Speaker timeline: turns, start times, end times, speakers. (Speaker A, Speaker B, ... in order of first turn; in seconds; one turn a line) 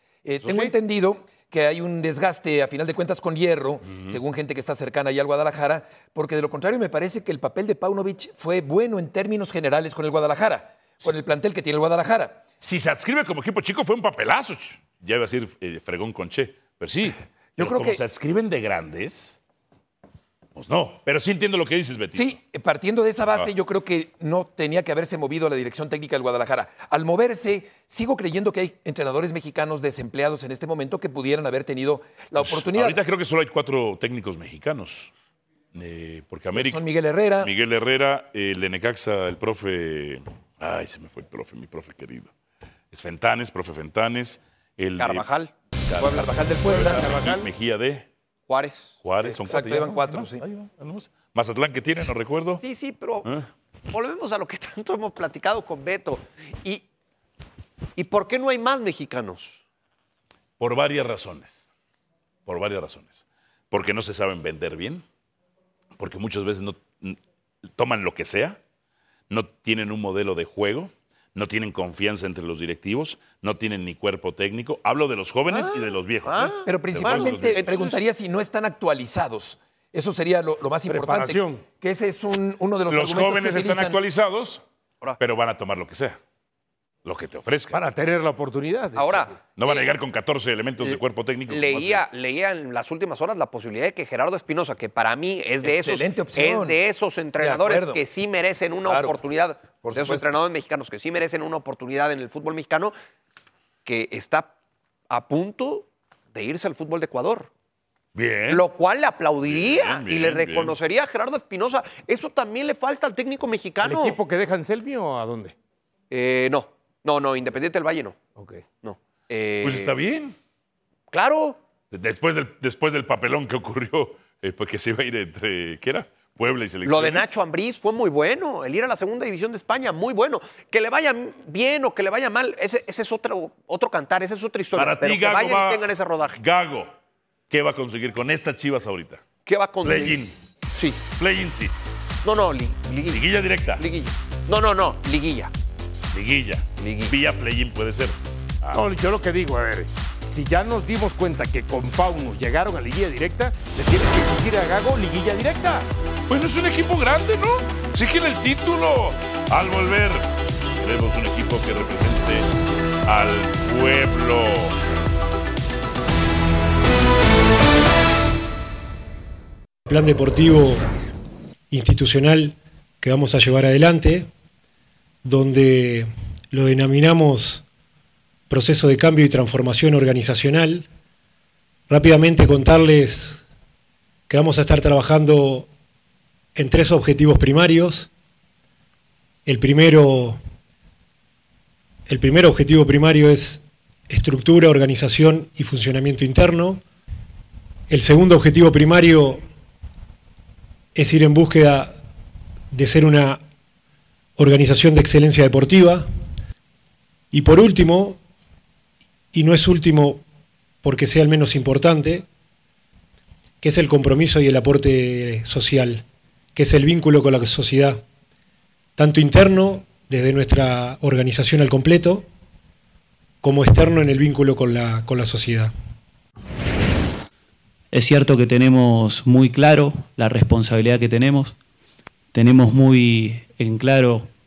Speaker A: 0.2-12.4
Speaker B: 0.4-0.7
Speaker B: 3.8-4.2
Speaker B: 12.6-19.4
Speaker A: 17.6-18.0
Speaker B: 20.6-22.4
Speaker A: 22.1-33.0
Speaker B: 32.4-35.1
Speaker B: 35.7-36.8
Speaker A: 36.5-37.5
Speaker B: 37.4-42.3
Speaker B: 42.9-45.2
Speaker C: 45.0-46.7
Speaker B: 45.9-48.1
Speaker A: 46.1-47.1
Speaker D: 46.8-47.5
Speaker C: 48.5-49.3
Speaker B: 49.0-52.6
Speaker A: 49.4-50.4
Speaker C: 52.6-56.8
Speaker C: 58.0-59.6
Speaker B: 60.6-61.6
Speaker B: 62.5-65.0
Speaker B: 66.0-67.2
Speaker B: 67.7-68.6
Speaker B: 69.3-77.8
Speaker C: 75.5-78.0
Speaker A: 76.7-84.0
Speaker D: 80.9-81.7
Speaker B: 82.9-84.6
Speaker B: 85.2-86.2
Speaker B: 87.0-87.8
Speaker D: 87.7-89.3
Speaker C: 88.9-90.0
Speaker B: 89.5-92.0
Speaker C: 91.5-102.9
Speaker A: 95.6-96.8
Speaker A: 97.4-98.0
Speaker A: 98.8-99.2
Speaker A: 99.8-100.3
Speaker C: 103.8-104.5
Speaker C: 105.1-107.5
Speaker B: 108.1-108.6
Speaker C: 108.5-114.2
Speaker B: 109.4-110.8
Speaker D: 113.8-115.5
Speaker C: 116.1-118.2
Speaker D: 118.3-118.7
Speaker C: 118.8-119.9
Speaker B: 119.6-120.3
Speaker C: 121.1-121.6
Speaker B: 121.9-127.3
Speaker C: 126.8-136.4
Speaker B: 134.7-136.9
Speaker B: 137.5-139.2
Speaker C: 139.4-141.0
Speaker B: 139.8-140.3
Speaker B: 141.1-141.7
Speaker C: 142.2-145.5
Speaker B: 143.1-143.8
Speaker B: 146.1-148.8
Speaker C: 146.8-147.1
Speaker D: 148.7-155.8
Speaker B: 156.3-160.2
Speaker B: 160.8-162.5
Speaker B: 163.1-164.7
Speaker E: 169.9-170.8
Speaker E: 171.7-174.3
Speaker E: 175.2-177.6
Speaker E: 178.5-180.9
Speaker E: 181.9-183.4
Speaker E: 184.3-185.7
Speaker E: 186.5-188.1
Speaker E: 189.4-190.4
Speaker E: 192.1-196.8
Speaker E: 197.9-199.4
Speaker E: 200.9-201.9
Speaker E: 202.7-203.4
Speaker E: 204.4-206.1
Speaker E: 207.3-208.2
Speaker E: 209.3-210.2
Speaker E: 210.8-212.2
Speaker E: 213.6-216.0
Speaker E: 216.5-218.0
Speaker E: 219.0-222.2
Speaker E: 223.4-225.7
Speaker F: 227.9-231.6
Speaker F: 232.3-234.3